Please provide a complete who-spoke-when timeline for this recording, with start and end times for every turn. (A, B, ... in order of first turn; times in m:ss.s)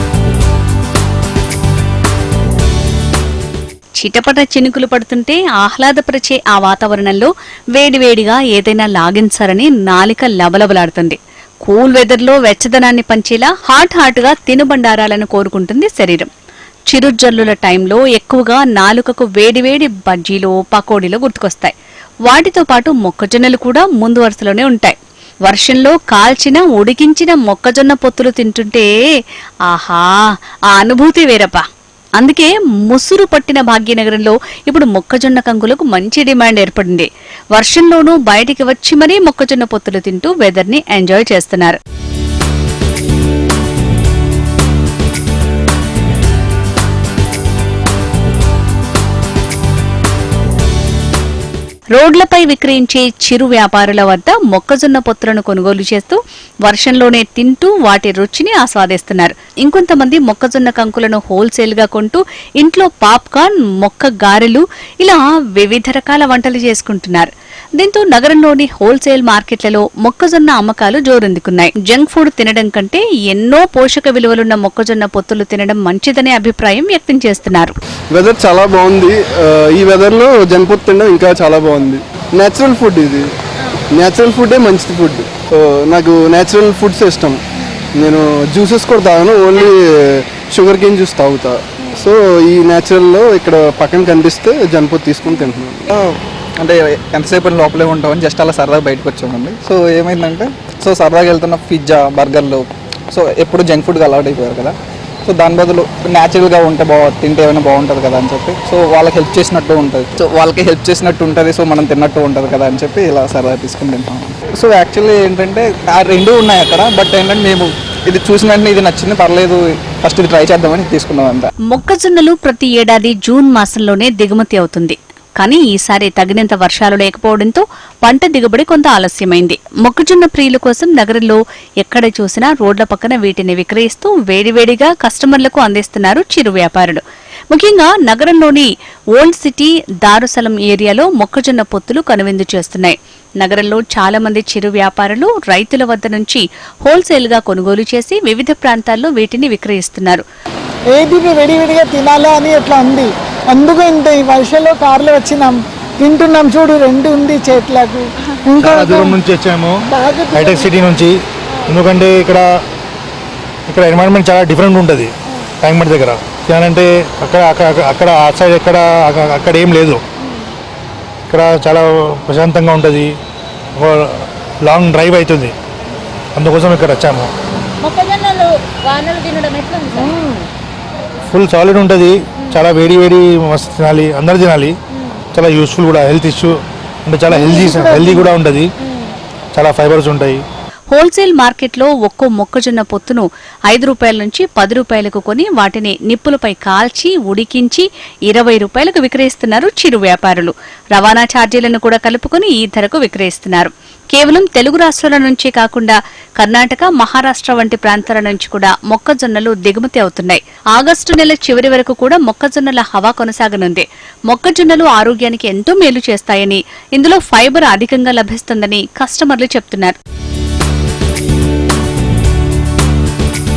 0:04.0-0:16.3 A
0:16.9-0:21.7 A
0:22.2-0:28.9 A
0:29.7-0:31.6 A
0:32.2-0:41.8 A
0:51.9-1:17.7 A
1:18.1-1:23.3 B
1:24.0-1:27.4 B
1:28.0-1:35.9 B
1:36.0-1:44.7 C
1:45.2-2:01.5 C
2:01.7-2:30.2 A
2:30.9-2:39.2 D
2:38.6-2:39.8 E
2:39.9-2:40.7 D
2:40.3-2:41.1 E
2:41.7-2:42.5 E
2:43.7-2:50.0 E
2:51.3-2:53.1 E
2:53.8-2:55.5 E
2:56.4-2:57.3 E
2:57.8-3:00.2 F
3:01.3-3:04.8 E
3:05.3-3:08.7 E
3:07.3-3:08.3 D
3:08.8-3:09.1 F
3:09.5-3:10.4 E
3:10.9-3:40.0 A